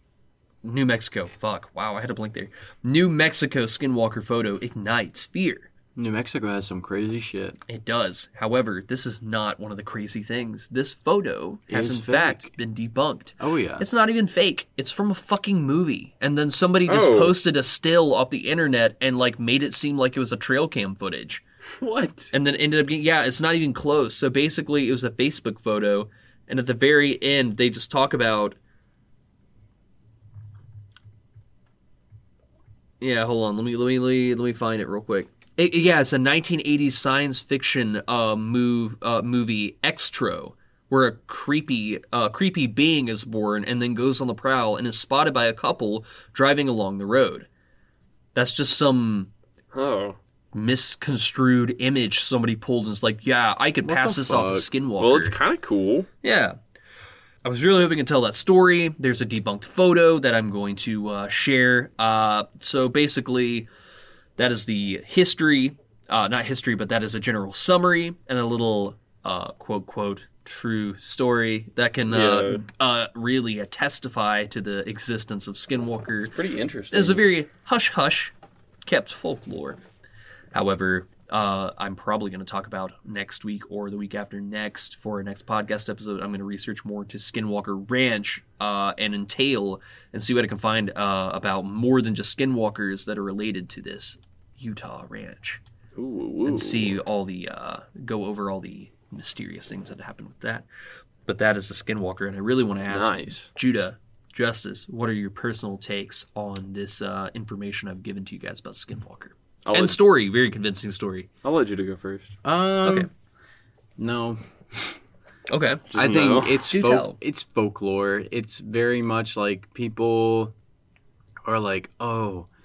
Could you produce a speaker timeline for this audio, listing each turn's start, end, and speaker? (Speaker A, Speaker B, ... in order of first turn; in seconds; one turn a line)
Speaker A: 0.6-5.7
Speaker B: 6.0-7.6
Speaker A: 7.7-21.4
Speaker B: 11.7-12.5
Speaker B: 13.4-13.8
Speaker C: 16.9-17.4
Speaker C: 21.8-22.3
Speaker A: 22.3-28.6
Speaker A: 33.0-47.5
Speaker A: 48.3-49.3
Speaker C: 49.7-50.2
Speaker A: 50.5-55.4
Speaker B: 53.8-54.6
Speaker C: 55.0-56.1
Speaker A: 56.2-56.6
Speaker A: 57.4-63.7
Speaker A: 64.4-76.3
Speaker C: 72.1-72.6
Speaker C: 76.3-77.2
Speaker A: 76.9-78.3
Speaker A: 78.8-79.8
Speaker A: 80.5-95.6
Speaker C: 96.0-97.0
Speaker A: 96.5-100.7
Speaker A: 101.2-111.3
Speaker C: 102.9-103.5
Speaker C: 109.6-110.0
Speaker C: 111.4-112.3
Speaker B: 112.4-113.1
Speaker A: 112.8-113.1
Speaker B: 114.0-114.9
Speaker A: 115.5-115.9
Speaker C: 115.9-116.6
Speaker B: 115.9-120.5
Speaker A: 116.7-117.2
Speaker B: 121.5-122.5